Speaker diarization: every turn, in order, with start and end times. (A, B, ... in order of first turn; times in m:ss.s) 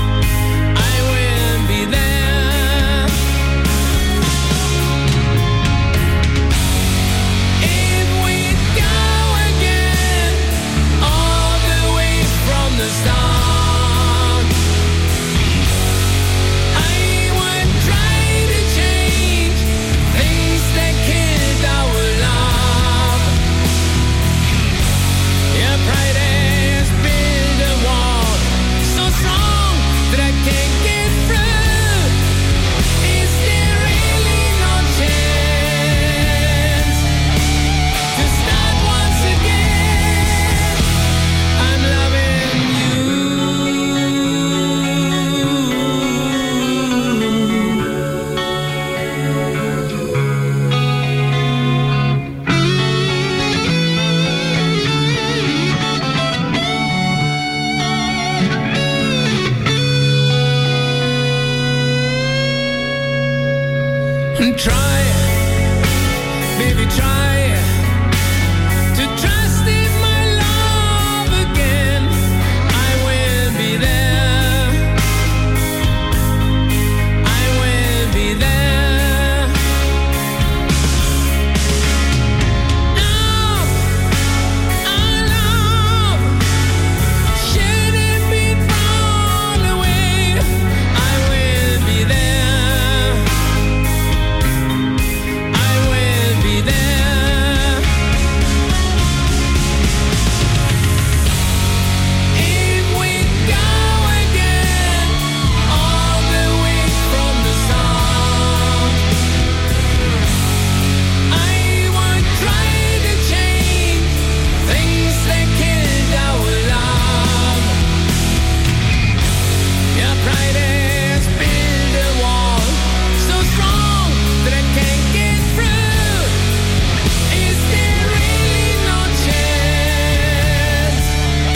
0:00.7-0:03.2 A
0:07.6-0:14.5 A
0:16.7-0:23.4 A
0:25.5-0:32.2 A
0:33.0-0:37.1 A
0:38.1-0:40.8 A
0:41.6-0:44.0 A
0:45.2-0:47.5 A
1:04.4-1:05.4 A
1:06.5-1:07.7 A
1:08.9-1:12.2 A
1:12.7-1:14.9 A
1:17.2-1:19.6 A
1:22.9-1:23.9 A
1:24.8-1:26.4 A
1:27.4-1:33.3 A
1:35.5-1:37.9 A
1:42.3-1:49.0 A
1:51.3-1:57.8 A
1:59.9-2:06.4 A
2:07.3-2:11.1 A